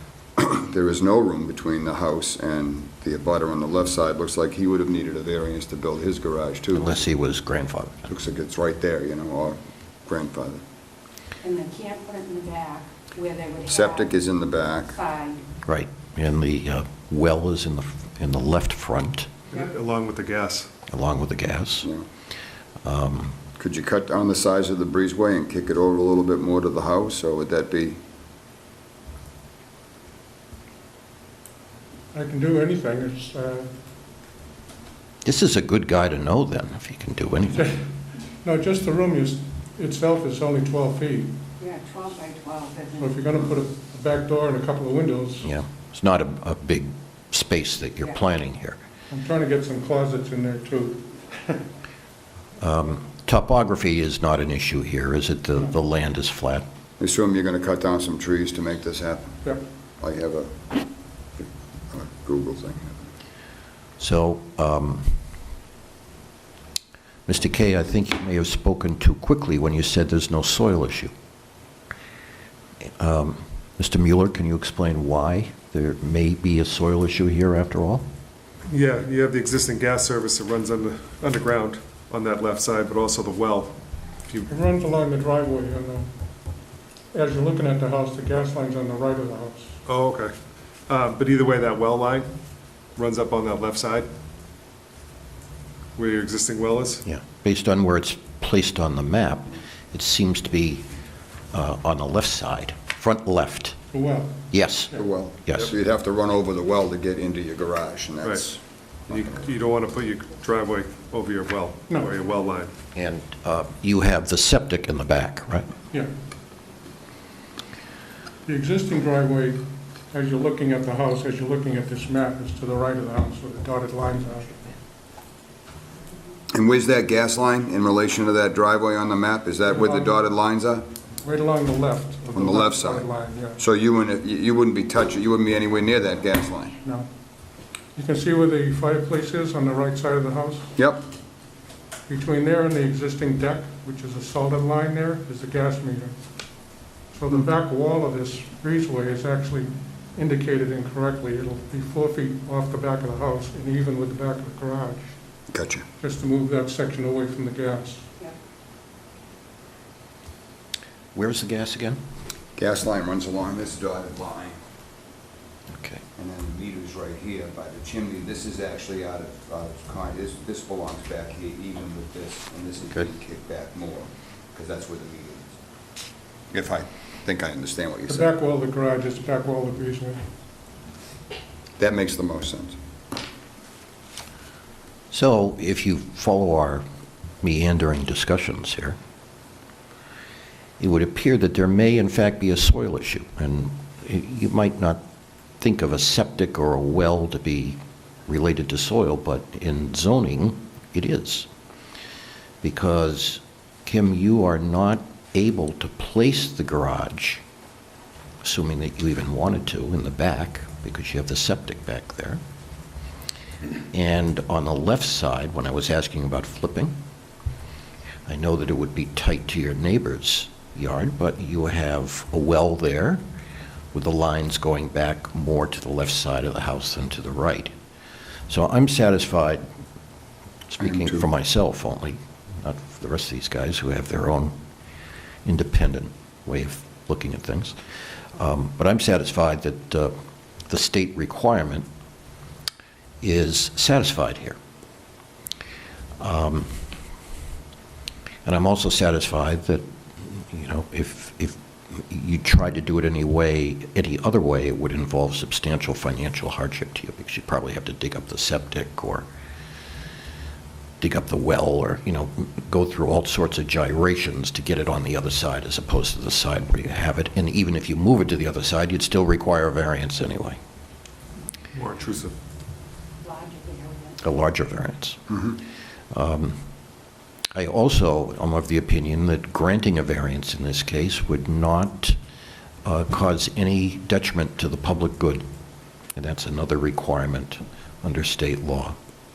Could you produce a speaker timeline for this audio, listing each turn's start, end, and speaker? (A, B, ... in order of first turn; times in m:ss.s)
0:00.4-0:07.0 A
0:06.7-0:08.1 B
0:08.1-0:10.6 A
0:11.4-0:14.1 C
0:13.6-0:15.0 A
0:14.9-0:15.4 C
0:15.6-0:19.3 B
0:19.5-0:20.7 D
0:20.9-0:21.9 B
0:22.8-0:23.4 B
0:23.6-0:28.0 A
0:32.1-0:33.7 E
0:35.2-0:37.8 B
0:38.4-0:41.3 E
0:41.6-0:43.4 C
0:43.0-0:45.5 E
0:45.4-0:48.8 B
0:49.1-0:51.6 E
0:52.6-0:56.6 B
0:57.0-0:59.4 A
1:00.0-1:00.6 A
1:01.4-1:03.0 A
1:04.0-1:05.2 B
1:07.3-1:11.1 B
1:13.0-1:18.0 B
1:18.7-1:24.5 D
1:24.5-1:26.1 E
1:27.1-1:29.8 E
1:29.8-1:30.3 D
1:30.9-1:32.3 D
1:33.0-1:34.1 D
1:36.0-1:37.0 D
1:37.0-1:40.8 B
1:41.5-1:43.8 B
1:43.9-1:45.0 E
1:44.5-1:45.7 B
1:44.9-1:49.3 A
1:49.1-1:52.7 D
1:52.9-1:55.7 B
1:58.4-2:04.6 E
2:06.5-2:10.8 A
2:09.7-2:10.1 E
2:11.2-2:13.6 E
2:12.3-2:13.0 A
2:13.6-2:16.8 A
2:17.9-2:20.7 E
2:20.8-2:21.0 A
2:22.1-2:26.1 E
2:27.1-2:35.1 E
2:35.5-2:35.8 A
2:36.0-2:38.1 E
2:41.1-2:42.0 B
2:42.6-2:44.6 A
2:45.7-2:46.0 B
2:46.2-2:55.5 A
2:56.5-2:58.3 A
2:58.1-3:00.2 E
3:01.8-3:02.8 A
3:05.1-3:06.8 B
3:07.4-3:09.0 B
3:10.8-3:15.0 B
3:15.6-3:21.5 B
3:22.6-3:27.4 B
3:28.4-3:32.4 B
3:33.9-3:37.0 B
3:38.3-3:43.2 B
3:43.9-3:47.7 B
3:48.5-3:49.6 B
3:50.7-3:54.5 B
3:50.8-3:51.2 A
3:55.4-3:57.7 B
3:58.4-4:00.1 B
4:00.7-4:01.8 B
4:03.2-4:04.6 B
4:06.2-4:06.9 B
4:08.4-4:19.2 B
4:21.0-4:30.6 B
4:31.7-4:32.3 D
4:33.2-4:34.2 C
4:34.2-4:35.2 B
4:36.1-4:36.6 B
4:37.5-4:42.2 B
4:42.8-4:45.4 B
4:46.2-4:49.0 B